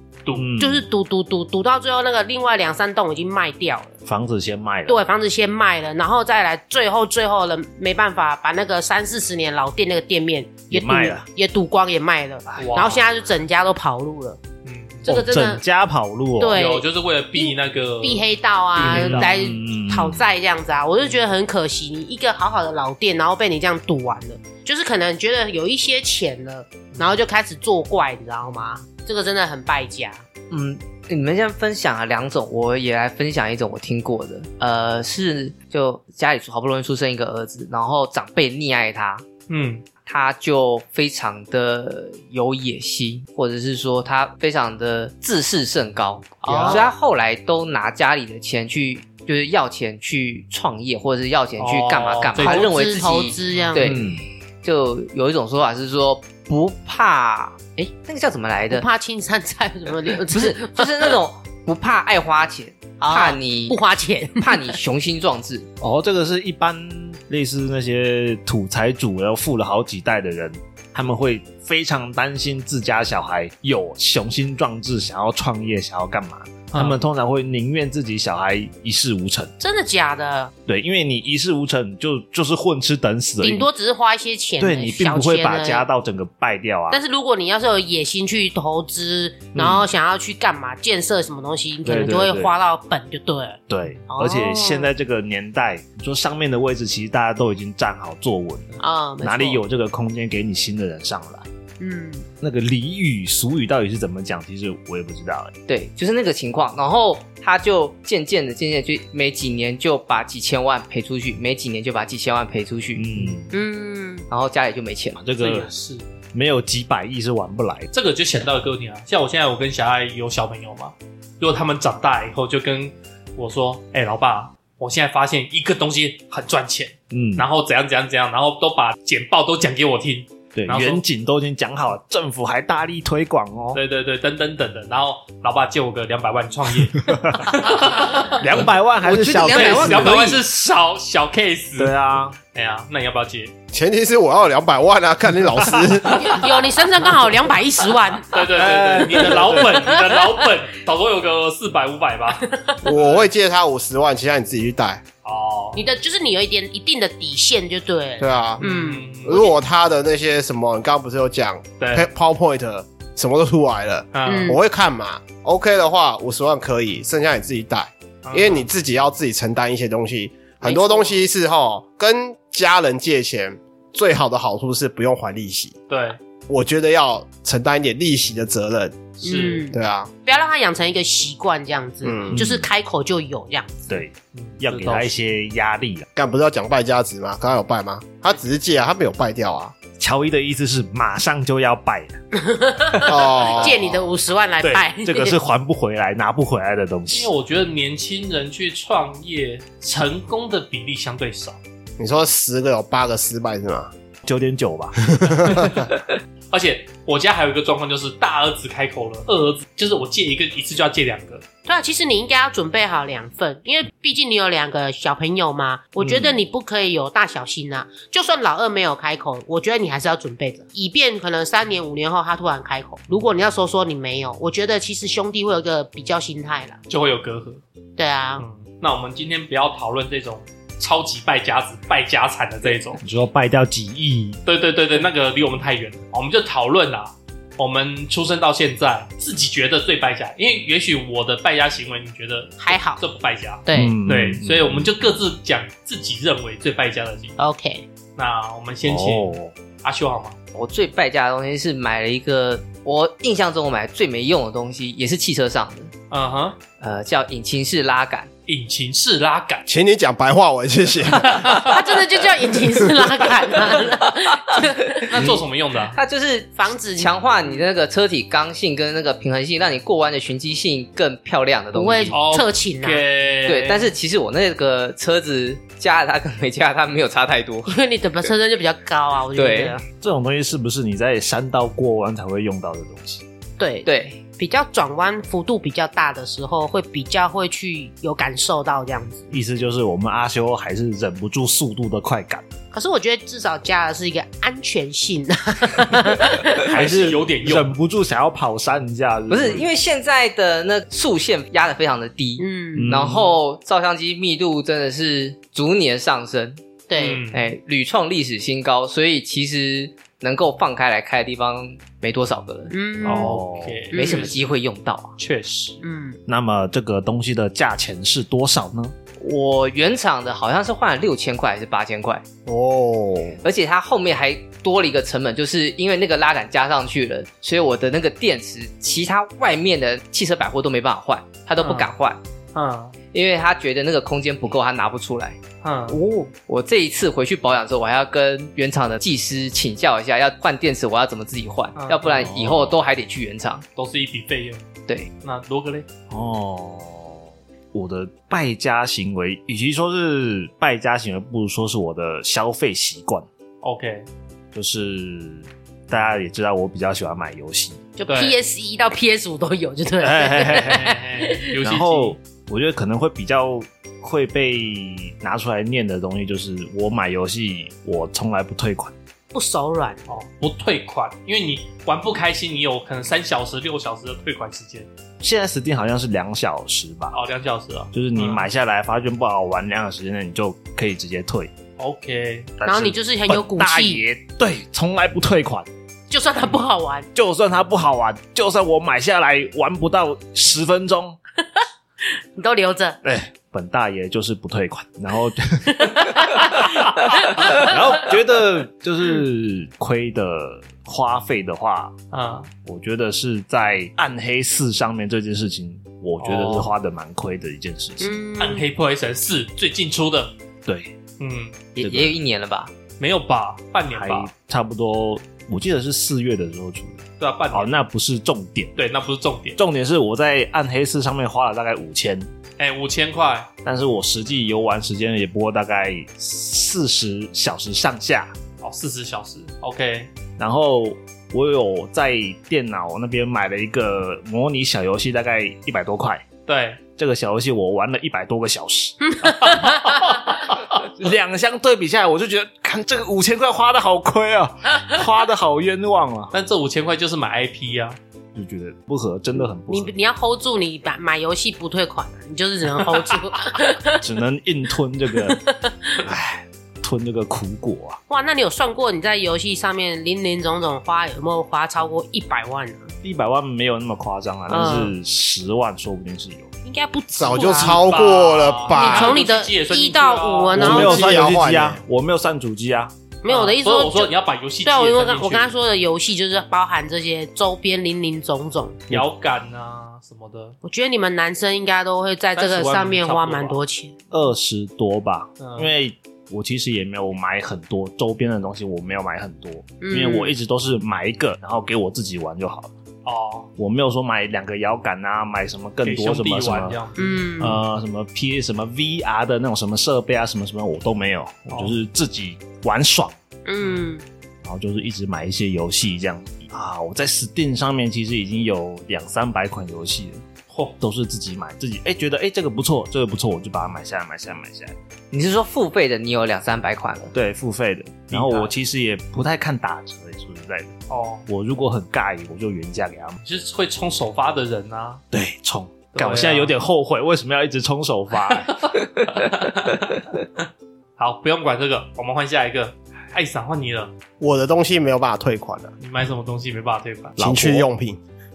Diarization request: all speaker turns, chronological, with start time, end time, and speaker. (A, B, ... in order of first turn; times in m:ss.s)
0:00.3-0:00.8 A
0:00.6-0:04.0 B
0:04.1-0:05.0 A
0:04.9-0:14.4 B
0:10.7-0:11.3 A
0:12.6-0:13.0 C
0:14.6-0:15.1 C
0:15.1-0:15.6 B
0:15.1-0:16.6 A
0:16.4-0:30.2 B
0:16.5-0:19.4 C
0:18.8-0:20.2 A
0:30.5-0:39.3 D
0:39.5-0:39.8 C
0:40.0-0:58.9 D
0:46.4-0:46.9 B
0:46.5-0:46.8 C
0:51.6-0:53.7 C
0:52.4-0:54.0 B
0:53.8-0:54.2 A
0:58.7-1:01.2 B
1:00.3-1:03.8 D
1:03.0-1:04.6 B
1:04.4-1:05.7 D
1:05.8-1:19.5 A
1:16.7-1:17.0 C
1:19.6-1:20.5 B
1:20.7-1:23.7 A
1:23.4-1:25.9 B
1:24.6-1:27.0 A
1:26.9-1:34.9 B
1:29.5-1:29.9 A
1:31.8-1:32.5 A
1:33.7-1:41.5 A
1:38.8-1:39.6 B
1:41.8-1:42.3 B
1:42.4-1:45.5 A
1:45.7-1:53.4 D
1:53.0-1:53.5 A
1:53.5-1:54.3 B
1:54.3-1:55.2 D
1:55.2-1:55.7 A
1:55.4-1:56.1 C
1:56.3-1:57.9 A
1:57.9-2:11.0 C
2:07.1-2:07.5 A
2:10.5-2:13.8 A
2:13.7-2:18.5 C
2:17.0-2:17.6 A
2:18.4-2:20.3 A
2:19.0-2:20.4 D
2:19.4-2:21.9 C
2:21.8-2:22.4 A
2:22.5-2:23.5 C
2:23.7-2:26.4 E
2:26.0-2:28.5 B
2:28.3-2:33.2 C
2:28.5-2:29.8 A
2:29.1-2:30.4 B
2:32.8-2:35.0 E
2:35.2-2:35.8 C
2:35.8-2:39.1 B
2:38.2-2:38.6 E
2:38.6-2:39.5 C
2:39.2-2:55.8 E
2:41.8-2:42.1 C
2:44.1-2:44.6 C
2:44.2-2:44.6 B
2:48.2-2:48.7 C
2:50.6-2:51.2 B
2:55.9-2:56.2 C
2:56.5-2:59.1 E
2:59.2-2:59.7 C
2:59.2-3:04.0 B
2:59.7-3:00.1 E
3:02.0-3:02.4 E
3:02.3-3:02.7 A
3:03.9-3:06.1 A
3:04.4-3:05.1 C
3:06.2-3:09.8 E
3:10.0-3:12.2 A
3:12.4-3:15.4 B
3:13.0-3:14.0 E
3:14.6-3:17.3 A
3:17.1-3:21.6 C
3:22.0-3:23.9 E
3:24.2-3:25.7 A
3:25.2-3:25.7 E
3:25.5-3:25.9 C
3:26.5-3:31.4 C
3:31.7-3:46.8 B
3:46.9-3:47.6 C
3:48.0-3:48.4 B
3:48.4-3:53.0 C
3:53.0-3:54.4 A
3:54.5-4:07.4 C
4:02.6-4:03.0 B
4:03.7-4:04.0 B
4:03.7-4:04.9 A
4:07.4-4:07.9 B
4:08.2-4:10.4 C
4:08.8-4:09.5 A
4:10.5-4:15.9 D
4:16.1-4:16.6 C
4:16.8-4:18.3 D
4:18.5-4:19.7 C
4:19.7-4:21.6 E
4:21.2-4:21.9 C
4:21.4-4:25.4 B
4:25.1-4:26.0 C
4:25.9-4:32.2 D
4:26.6-4:27.7 B
4:31.7-4:33.0 B
4:32.1-4:33.9 C
4:33.4-4:37.8 D
4:37.7-4:39.9 B
4:39.4-4:39.8 D
4:40.0-4:43.2 A
4:43.6-4:49.3 B
4:43.8-4:44.2 D
4:49.3-4:52.5 A
4:52.7-4:56.7 B
4:56.6-4:57.8 C
4:56.7-4:59.7 A
4:59.3-5:06.6 D
5:02.4-5:03.0 B
5:02.8-5:03.4 A
5:06.9-5:07.2 B
5:06.9-5:07.4 C
5:07.3-5:12.7 D
5:12.7-5:13.4 B
5:13.0-5:14.4 C
5:13.2-5:13.9 A
5:13.9-5:15.2 D
5:13.9-5:14.3 B
5:15.2-5:15.8 C
5:15.8-5:16.2 B
5:16.3-5:19.0 A
5:19.2-5:22.2 D
5:22.5-5:23.4 E
5:23.4-5:32.2 D
5:31.6-5:31.9 C
5:32.5-5:33.0 C
5:33.1-5:35.4 D
5:35.6-5:36.0 C
5:35.9-5:36.3 B
5:36.3-5:43.6 D
5:41.8-5:42.3 C
5:42.1-5:42.8 A
5:43.8-5:44.7 C
5:45.2-5:45.9 C
5:46.1-5:53.3 A
5:53.6-5:54.1 C
5:54.5-5:57.8 A
5:58.0-6:01.5 B
5:58.1-5:58.4 C
6:00.0-6:01.0 A
6:00.6-6:02.2 C
6:01.6-6:08.9 A
6:09.3-6:10.0 B
6:10.1-6:14.9 C
6:15.2-6:17.2 A
6:17.1-6:18.4 C
6:17.9-6:21.5 A
6:21.8-6:22.5 C
6:22.6-6:25.7 A
6:22.6-6:24.0 B
6:26.1-6:27.1 B
6:27.2-6:31.2 A
6:32.4-6:33.0 B
6:33.0-6:36.4 A
6:35.8-6:37.8 B
6:37.4-6:41.9 A
6:42.1-6:42.5 C
6:42.6-6:48.2 A
6:46.2-6:46.7 C
6:48.0-6:48.6 B
6:48.4-6:50.3 C
6:50.7-6:50.9 A
6:51.2-6:51.6 C
6:51.8-6:52.7 D
6:51.8-6:52.2 A
6:53.0-6:54.3 C
6:53.9-6:58.7 A
6:57.2-6:57.7 C
6:58.8-6:59.6 C
6:59.6-7:02.3 A
7:02.6-7:03.5 C
7:03.6-7:08.3 A
7:08.6-7:10.1 C
7:10.4-7:16.3 A
7:16.5-7:16.8 C
7:16.9-7:19.0 A
7:19.1-7:20.2 B
7:19.4-7:20.8 C
7:20.7-7:26.4 A
7:26.3-7:28.0 C
7:28.4-7:29.9 A
7:29.7-7:34.0 B
7:34.0-7:35.4 A
7:35.2-7:36.0 B
7:36.0-7:38.0 A
7:38.1-7:42.9 B
7:43.0-7:46.5 A
7:44.5-7:44.9 B
7:46.6-7:48.0 B
7:47.2-7:49.2 E
7:47.4-7:50.8 C
7:48.7-7:51.3 B
7:50.6-7:52.9 A
7:50.6-7:51.8 E
7:53.2-7:54.1 B
7:53.3-7:55.6 C
7:54.6-7:58.9 B
7:58.9-8:00.6 C
8:00.6-8:04.0 B
8:02.4-8:03.6 C
8:04.1-8:12.7 A
8:05.4-8:05.7 C
8:09.8-8:10.4 B
8:13.0-8:13.5 C
8:13.6-8:16.8 A
8:15.8-8:17.6 C
8:17.0-8:17.6 B
8:17.4-8:23.2 A
8:21.5-8:21.8 C
8:23.5-8:24.0 B
8:23.6-8:23.9 C
8:24.4-8:30.2 A
8:30.8-8:34.8 A
8:35.1-8:37.1 D
8:37.1-8:43.2 A
8:38.1-8:38.5 C
8:40.9-8:41.3 C
8:43.2-8:45.0 C
8:45.1-8:48.7 A
8:45.9-8:46.5 C
8:48.3-8:50.4 C
8:51.0-8:53.9 C
8:54.2-8:55.7 E
8:55.8-8:57.2 C
8:57.2-8:57.6 A
8:57.2-8:58.0 E